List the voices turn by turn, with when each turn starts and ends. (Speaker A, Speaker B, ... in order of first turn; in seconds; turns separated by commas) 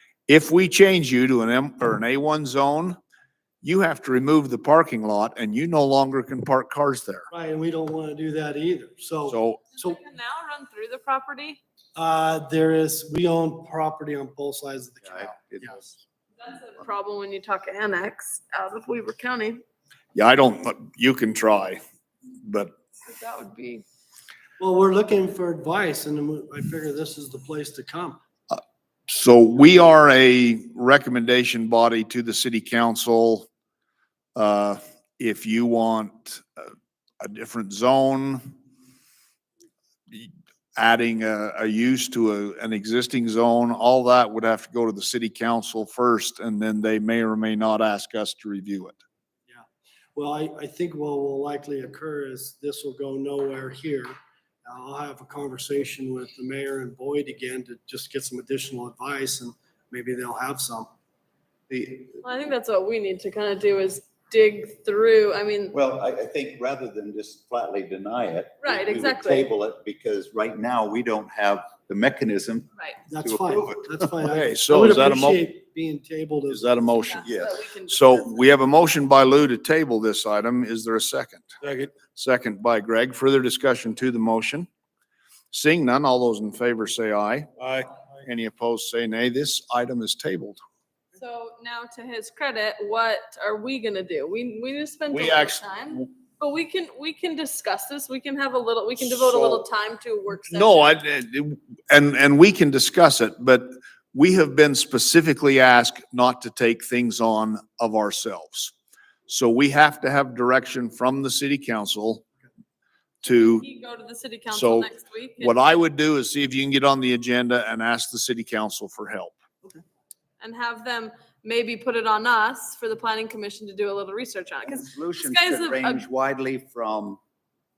Speaker A: 0.3-3.0, Speaker A: 3.6-7.2, Speaker B: 7.3-10.0, Speaker A: 9.3-9.6, Speaker C: 9.8-11.6, Speaker B: 11.9-15.8, Speaker D: 15.0-15.9, Speaker C: 16.4-19.6, Speaker A: 20.1-21.8, Speaker A: 22.4-22.7, Speaker C: 23.1-23.8, Speaker B: 24.6-28.2, Speaker A: 28.5-33.5, Speaker A: 34.3-38.4, Speaker A: 40.1-49.0, Speaker B: 49.5-54.1, Speaker B: 54.6-60.9, Speaker D: 61.7-62.1, Speaker C: 62.2-65.8, Speaker D: 65.7-73.8, Speaker C: 68.6-69.5, Speaker C: 72.7-73.0, Speaker B: 73.1-76.6, Speaker A: 74.2-75.4, Speaker A: 76.5-77.3, Speaker C: 76.9-78.4, Speaker D: 77.2-77.6, Speaker A: 77.9-84.7, Speaker A: 85.5-87.5, Speaker A: 88.2-90.6, Speaker C: 91.1-101.0, Speaker A: 95.1-96.1, Speaker A: 99.0-99.6, Speaker A: 100.5-108.7, Speaker A: 109.3-112.2, Speaker A: 113.2-113.7, Speaker C: 113.2-115.8, Speaker A: 114.5-119.4, Speaker C: 120.4-126.0, Speaker D: 124.7-127.2